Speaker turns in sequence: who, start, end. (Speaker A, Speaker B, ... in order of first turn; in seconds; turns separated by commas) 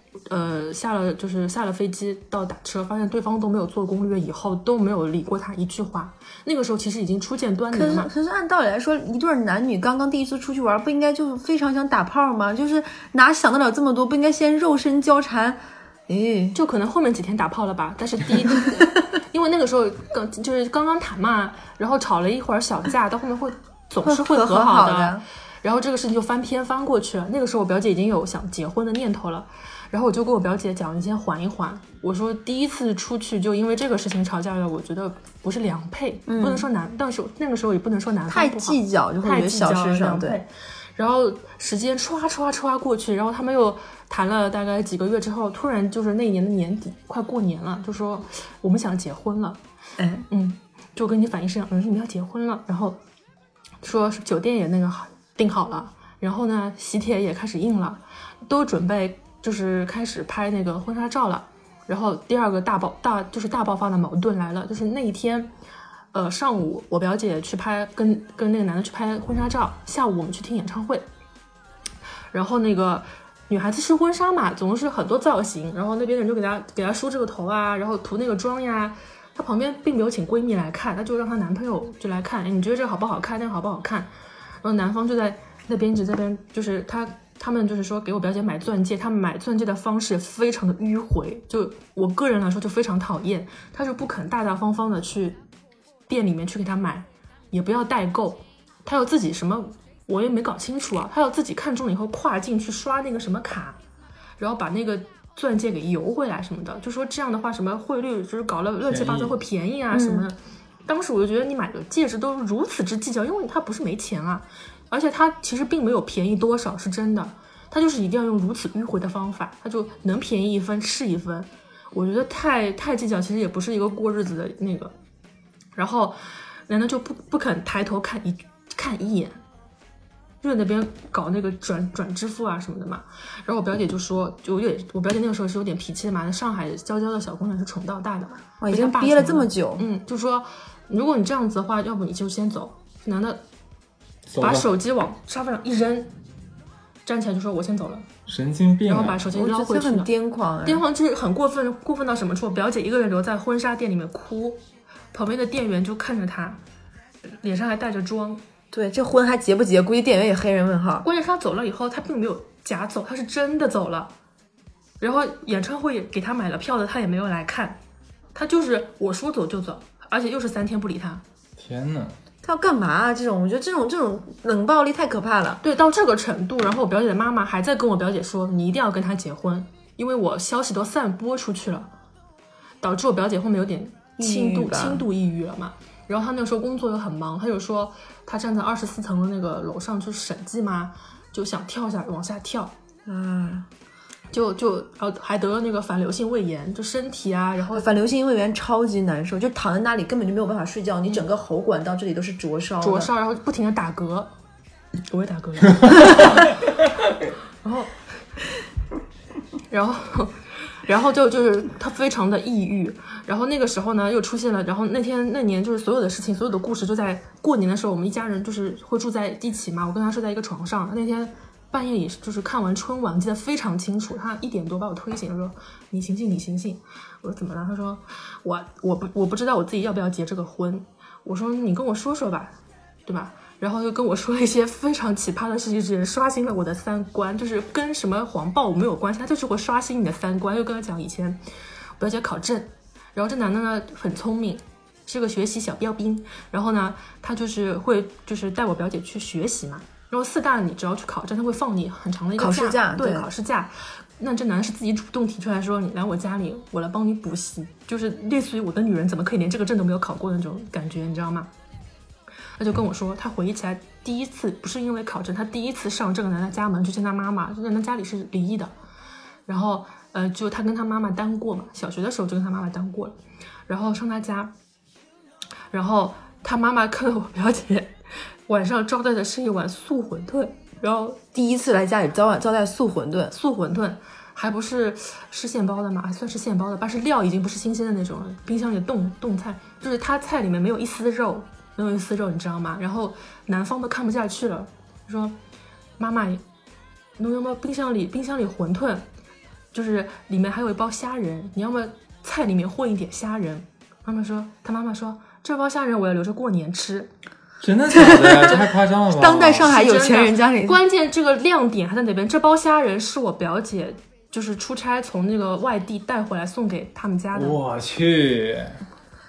Speaker A: 0.3-8.1, Speaker B: 7.7-16.6, Speaker A: 16.5-49.6, Speaker B: 24.0-25.2, Speaker B: 36.3-36.7, Speaker B: 38.3-40.4, Speaker B: 50.0-50.2, Speaker A: 50.3-53.0, Speaker A: 53.8-65.5, Speaker A: 66.1-71.0, Speaker A: 72.3-84.1, Speaker A: 84.6-95.4, Speaker A: 96.1-103.8, Speaker A: 104.4-124.9, Speaker C: 108.8-109.3, Speaker B: 109.9-110.3, Speaker A: 125.8-129.4, Speaker A: 130.4-143.4, Speaker B: 138.6-139.9, Speaker C: 144.3-144.7, Speaker A: 144.4-146.1, Speaker A: 147.1-148.1, Speaker C: 148.3-149.2, Speaker A: 148.9-150.1, Speaker B: 149.3-150.8, Speaker A: 150.6-156.6, Speaker A: 157.2-158.4, Speaker B: 158.7-161.1, Speaker A: 161.0-164.1, Speaker A: 165.0-167.8, Speaker A: 168.3-171.2, Speaker C: 171.6-172.1, Speaker B: 172.4-175.6, Speaker A: 175.6-181.9, Speaker A: 182.8-192.7, Speaker B: 184.2-185.0, Speaker B: 193.1-193.7, Speaker A: 194.3-197.9, Speaker B: 197.7-203.1, Speaker A: 202.8-204.3, Speaker A: 205.1-206.5, Speaker A: 207.6-207.9, Speaker A: 209.7-241.4, Speaker A: 242.0-261.5, Speaker B: 252.3-253.3, Speaker A: 262.6-268.7, Speaker A: 269.5-273.1, Speaker A: 273.7-274.5, Speaker A: 275.7-277.9, Speaker A: 278.5-281.2, Speaker B: 281.3-283.3, Speaker A: 283.3-295.4, Speaker A: 296.0-296.4, Speaker A: 297.2-299.1, Speaker A: 299.7-307.1, Speaker C: 307.6-309.7, Speaker B: 307.9-310.8, Speaker A: 309.6-317.6, Speaker C: 317.3-318.8